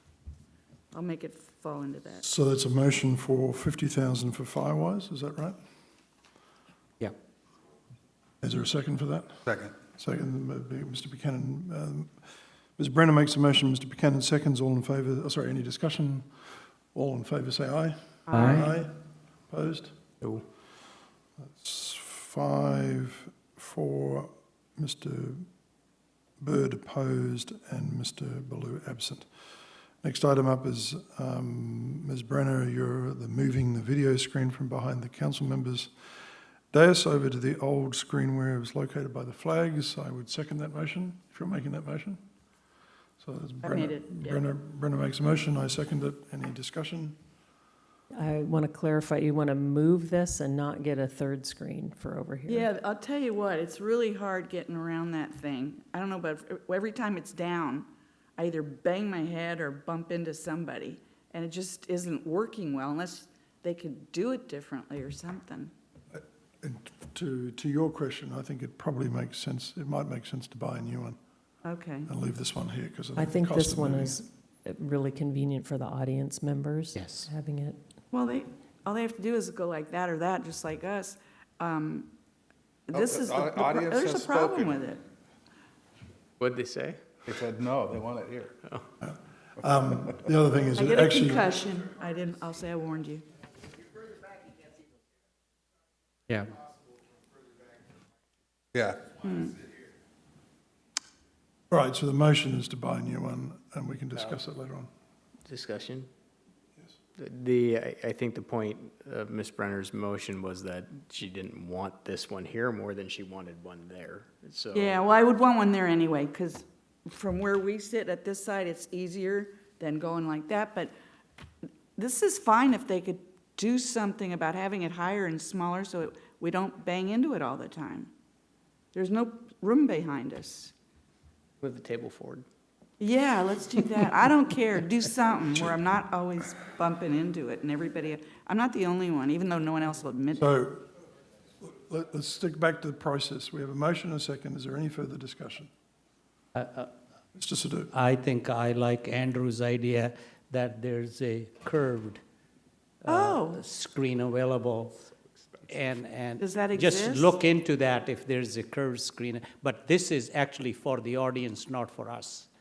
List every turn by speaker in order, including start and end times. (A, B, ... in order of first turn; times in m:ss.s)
0:00.9-0:02.2 A
0:02.2-0:05.6 B
0:08.4-0:09.4 B
0:09.4-0:09.7 C
0:09.9-0:12.1 B
0:12.8-0:16.3 B
0:16.9-0:18.9 B
0:18.3-0:18.7 A
0:19.5-0:19.9 B
0:21.4-0:25.4 B
0:26.4-0:29.2 B
0:30.0-0:35.9 B
0:36.7-0:42.2 B
0:43.2-0:47.1 B
0:43.6-0:44.4 A
0:48.2-0:52.7 D
0:52.5-1:05.7 A
1:06.1-1:11.2 B
1:11.6-1:12.1 A
1:12.1-1:14.2 B
1:13.2-1:17.8 D
1:16.9-1:17.2 E
1:18.1-1:22.1 A
1:22.9-1:25.0 A
1:22.9-1:24.8 C
1:26.4-1:27.0 F
1:27.2-1:28.5 C
1:29.0-1:31.5 B
1:30.8-1:33.2 A
1:38.7-1:39.1 C
1:39.2-1:39.6 A
1:41.7-1:44.9 B
1:45.4-1:46.1 F
1:47.2-1:55.0 F
1:54.7-2:00.9 A
2:02.0-2:08.1 A
2:08.9-2:10.7 A
2:11.6-2:12.4 F
2:13.0-2:20.5 A
2:20.4-2:20.8 B
2:21.6-2:25.7 B
2:26.5-2:26.9 E
2:27.3-2:27.9 B
2:27.9-2:32.2 E
2:33.0-2:35.0 E
2:33.1-2:33.6 A
2:35.7-2:42.5 E
2:36.4-2:37.4 A